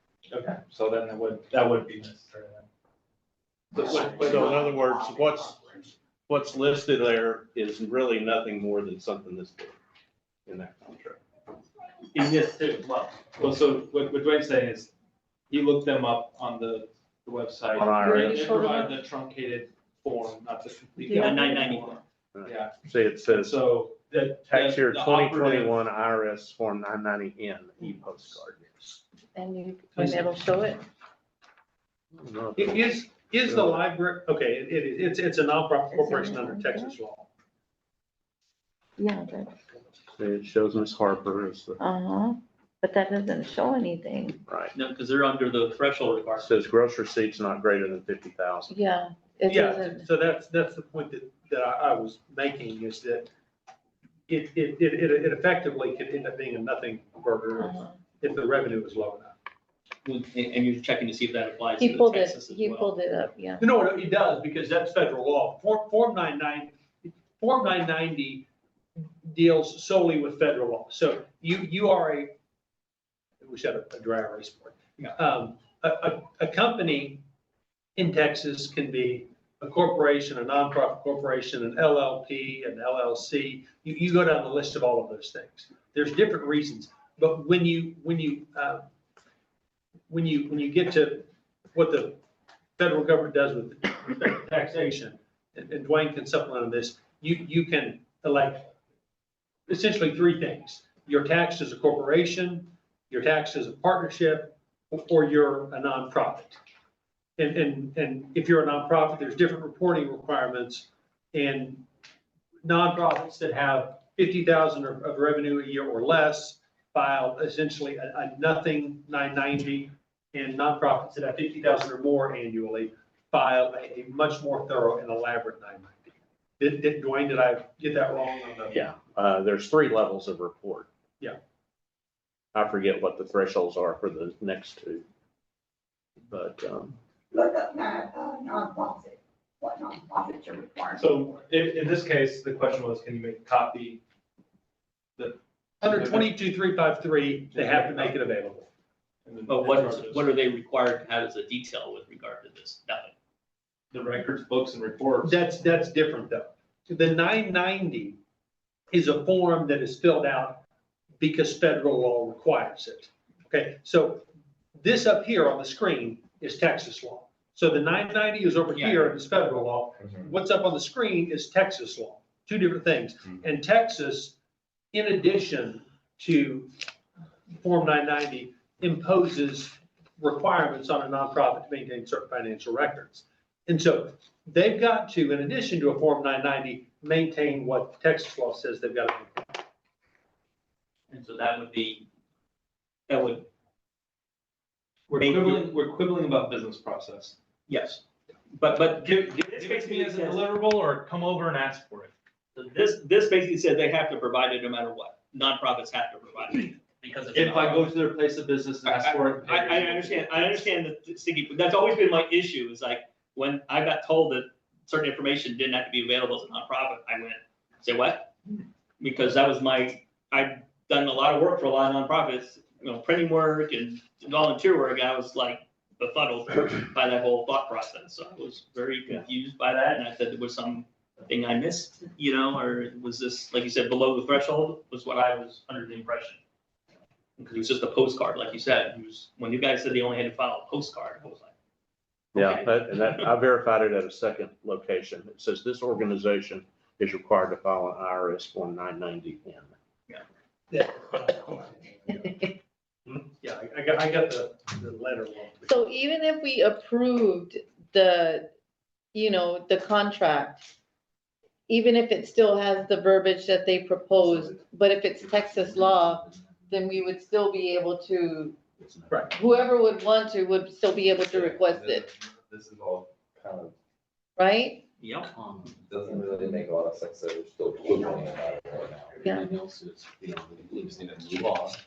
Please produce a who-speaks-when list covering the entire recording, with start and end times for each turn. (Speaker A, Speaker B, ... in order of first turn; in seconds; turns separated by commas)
Speaker A: 0.3-2.7, Speaker A: 3.8-4.4, Speaker B: 3.8-5.8, Speaker C: 4.4-4.7, Speaker B: 6.3-9.8, Speaker B: 10.5-11.2, Speaker D: 12.1-13.3, Speaker A: 13.4-14.9, Speaker A: 15.5-22.8, Speaker B: 17.8-18.6, Speaker E: 18.0-19.0, Speaker E: 21.1-21.8, Speaker D: 21.1-22.0, Speaker B: 22.4-23.6, Speaker A: 23.3-25.8, Speaker B: 24.5-29.0, Speaker E: 29.4-30.8, Speaker F: 30.0-30.2, Speaker B: 32.1-33.8, Speaker F: 32.6-37.3, Speaker E: 35.9-37.0, Speaker E: 39.0-39.6, Speaker B: 40.2-41.8, Speaker E: 41.8-44.4, Speaker B: 44.5-44.7, Speaker D: 44.7-46.5, Speaker B: 46.4-48.8, Speaker E: 48.7-50.0, Speaker F: 49.5-53.3, Speaker F: 54.3-59.4, Speaker E: 57.6-58.0, Speaker D: 60.0-62.9, Speaker E: 61.8-63.6, Speaker F: 63.6-68.5, Speaker F: 69.2-72.3, Speaker F: 73.4-77.2, Speaker F: 78.0-88.9, Speaker F: 90.1-92.2, Speaker F: 92.8-98.7, Speaker F: 99.7-106.6, Speaker F: 107.4-111.9, Speaker F: 112.6-128.8, Speaker B: 128.7-130.9, Speaker B: 132.5-135.1, Speaker B: 136.3-137.0, Speaker C: 137.3-141.0, Speaker A: 141.0-144.0, Speaker A: 145.2-146.3, Speaker F: 145.8-148.7, Speaker A: 147.5-148.2, Speaker A: 149.3-150.2, Speaker D: 149.5-153.1, Speaker A: 153.9-155.4, Speaker F: 155.2-158.2, Speaker F: 158.9-160.6, Speaker F: 161.2-174.3, Speaker D: 168.7-169.1, Speaker F: 174.9-176.7, Speaker F: 177.6-189.6, Speaker D: 191.1-192.1, Speaker D: 193.1-193.5, Speaker A: 195.1-197.4, Speaker D: 195.2-195.7, Speaker D: 197.7-200.4, Speaker A: 199.1-202.1, Speaker D: 202.6-207.9, Speaker A: 207.3-210.5, Speaker D: 208.8-218.3, Speaker D: 219.0-236.4, Speaker D: 237.4-241.5, Speaker D: 242.3-243.3, Speaker B: 242.3-249.7, Speaker F: 250.7-251.6, Speaker F: 253.1-255.8, Speaker E: 255.6-258.5, Speaker E: 259.1-260.7, Speaker E: 261.7-268.6, Speaker B: 264.2-264.5, Speaker B: 265.2-266.4, Speaker B: 268.8-269.3, Speaker E: 269.3-272.1, Speaker G: 271.3-273.7, Speaker E: 274.4-274.8, Speaker D: 275.0-275.3, Speaker B: 275.4-275.8, Speaker G: 275.8-279.5, Speaker B: 279.2-280.8, Speaker G: 280.3-281.7